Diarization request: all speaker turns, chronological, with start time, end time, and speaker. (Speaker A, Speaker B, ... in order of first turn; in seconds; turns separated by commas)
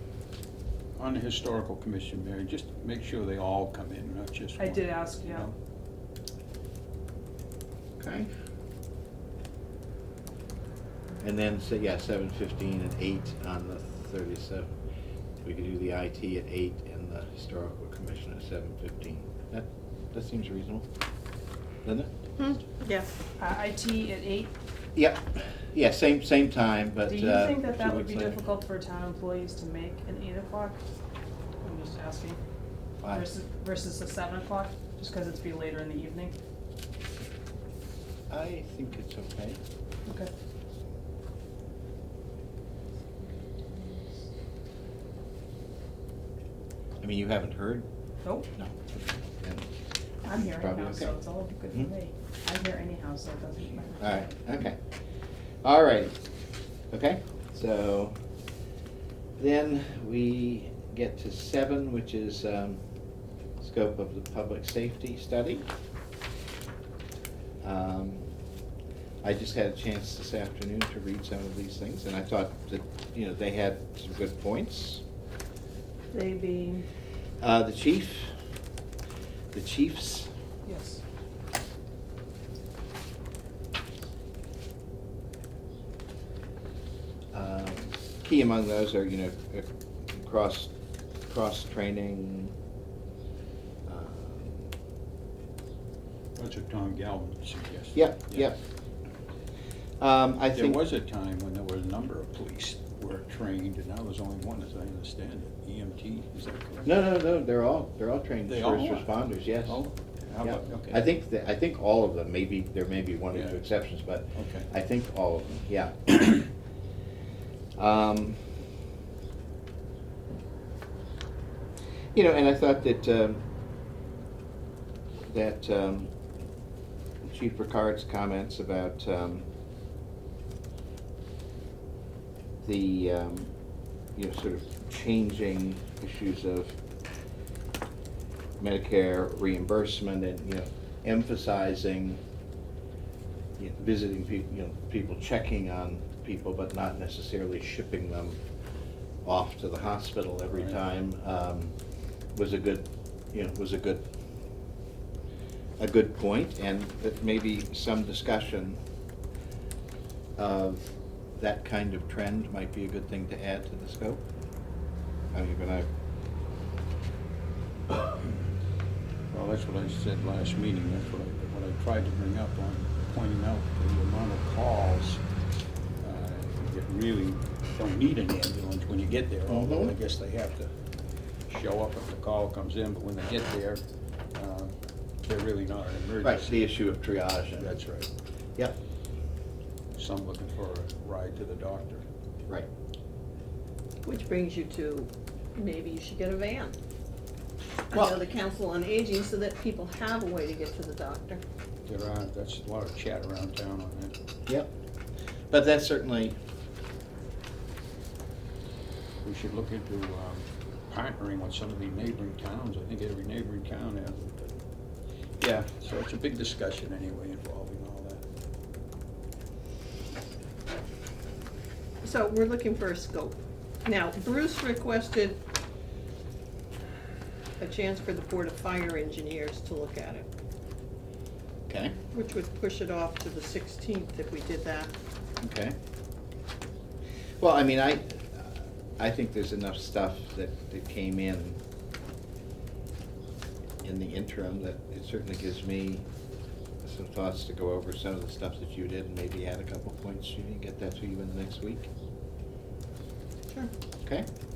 Speaker A: 0.9-5.5, Speaker B: 4.6-5.5, Speaker C: 8.0-8.3, Speaker C: 11.2-14.7, Speaker C: 15.4-20.9, Speaker C: 21.8-22.1, Speaker D: 22.4-23.1, Speaker B: 23.4-24.5, Speaker C: 24.9-28.4, Speaker B: 27.1-30.8, Speaker B: 31.6-32.4, Speaker C: 33.0-33.3, Speaker B: 33.1-36.4, Speaker C: 38.3-39.6, Speaker B: 40.0-40.3, Speaker C: 47.0-47.9, Speaker C: 48.5-49.7, Speaker B: 50.2-54.3, Speaker C: 50.2-51.1, Speaker C: 54.0-54.8, Speaker C: 55.6-56.2, Speaker C: 56.9-58.1, Speaker C: 59.4-62.8, Speaker C: 63.6-65.7, Speaker C: 67.6-68.3, Speaker C: 69.2-75.0, Speaker D: 76.1-76.7, Speaker B: 76.2-76.8, Speaker C: 77.4-78.3, Speaker C: 79.5-80.3, Speaker B: 80.6-81.0, Speaker C: 87.3-90.7, Speaker C: 91.3-92.5, Speaker C: 93.8-94.7, Speaker A: 96.3-98.5, Speaker C: 97.9-98.6, Speaker C: 100.0-100.8, Speaker A: 100.5-106.9, Speaker C: 106.8-109.9, Speaker A: 108.5-111.1, Speaker C: 110.4-116.5, Speaker A: 113.3-113.6, Speaker A: 114.3-114.7, Speaker C: 117.8-118.5, Speaker C: 122.1-123.4, Speaker C: 125.3-126.1, Speaker C: 127.2-129.5, Speaker C: 132.6-133.5, Speaker C: 134.1-136.8, Speaker C: 138.6-142.2, Speaker C: 143.6-148.4, Speaker C: 149.2-151.7, Speaker A: 150.5-150.8, Speaker C: 152.3-154.1, Speaker C: 155.8-158.8, Speaker C: 160.4-164.2, Speaker C: 165.3-165.9, Speaker A: 169.3-175.2, Speaker A: 176.0-180.7, Speaker C: 179.5-179.9, Speaker A: 181.5-184.7, Speaker A: 185.2-186.6, Speaker C: 186.2-187.8, Speaker A: 187.6-188.1, Speaker A: 189.9-192.0, Speaker D: 194.0-196.8, Speaker D: 197.9-201.4, Speaker A: 201.8-204.1, Speaker C: 205.5-206.3, Speaker A: 209.2-214.6, Speaker A: 215.4-218.2, Speaker D: 222.0-225.4, Speaker D: 227.6-230.2, Speaker C: 231.7-232.0, Speaker D: 232.1-234.9, Speaker C: 235.4-235.8, Speaker C: 237.4-241.6, Speaker C: 243.8-246.1, Speaker C: 246.8-251.9